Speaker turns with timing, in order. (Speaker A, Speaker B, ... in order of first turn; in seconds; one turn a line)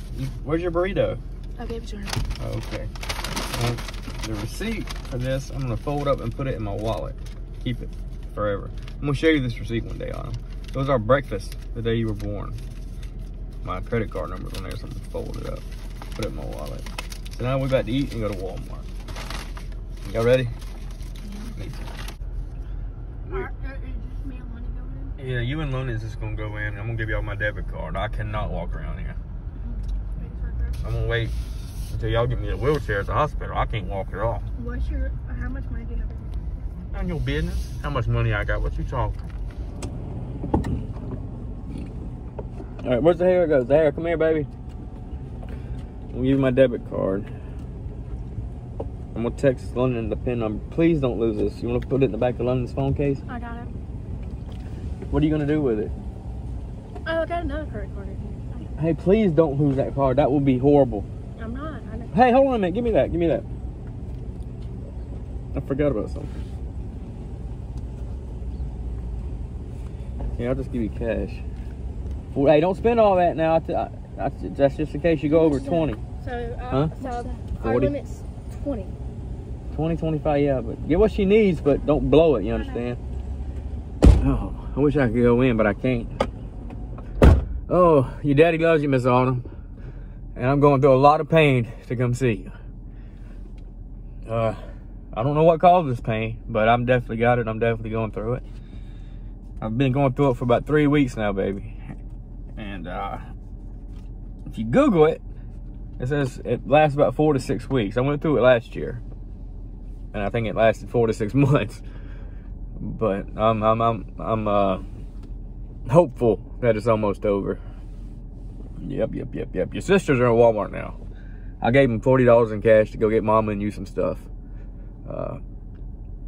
Speaker A: 0.1-1.2
Speaker B: 1.6-2.2
Speaker A: 2.4-2.9
Speaker A: 3.5-12.6
Speaker A: 13.6-15.6
Speaker A: 16.1-18.9
Speaker A: 20.0-20.5
Speaker B: 21.2-21.5
Speaker A: 21.6-21.9
Speaker A: 23.2-23.5
Speaker B: 23.3-25.1
Speaker A: 25.2-29.2
Speaker B: 29.6-30.8
Speaker A: 30.8-31.3
Speaker A: 31.9-34.5
Speaker B: 34.6-36.4
Speaker A: 36.9-39.2
Speaker A: 42.8-44.5
Speaker A: 46.1-47.3
Speaker A: 49.1-53.2
Speaker B: 53.3-53.7
Speaker A: 55.1-55.9
Speaker B: 57.0-58.7
Speaker A: 58.8-61.1
Speaker B: 61.4-62.2
Speaker A: 62.1-63.4
Speaker A: 65.5-66.4
Speaker A: 70.4-71.4
Speaker A: 72.3-76.0
Speaker B: 75.2-78.9
Speaker A: 76.7-78.0
Speaker A: 79.7-83.0
Speaker B: 82.5-82.8
Speaker A: 84.2-86.1
Speaker A: 87.7-89.5
Speaker A: 90.4-92.5
Speaker A: 94.2-98.4
Speaker A: 99.6-101.8
Speaker A: 102.5-103.3
Speaker A: 104.5-105.2
Speaker A: 106.0-109.0
Speaker A: 110.1-111.8
Speaker A: 112.8-114.9
Speaker A: 115.9-117.6
Speaker A: 118.8-121.0
Speaker A: 121.6-124.3
Speaker A: 125.0-125.4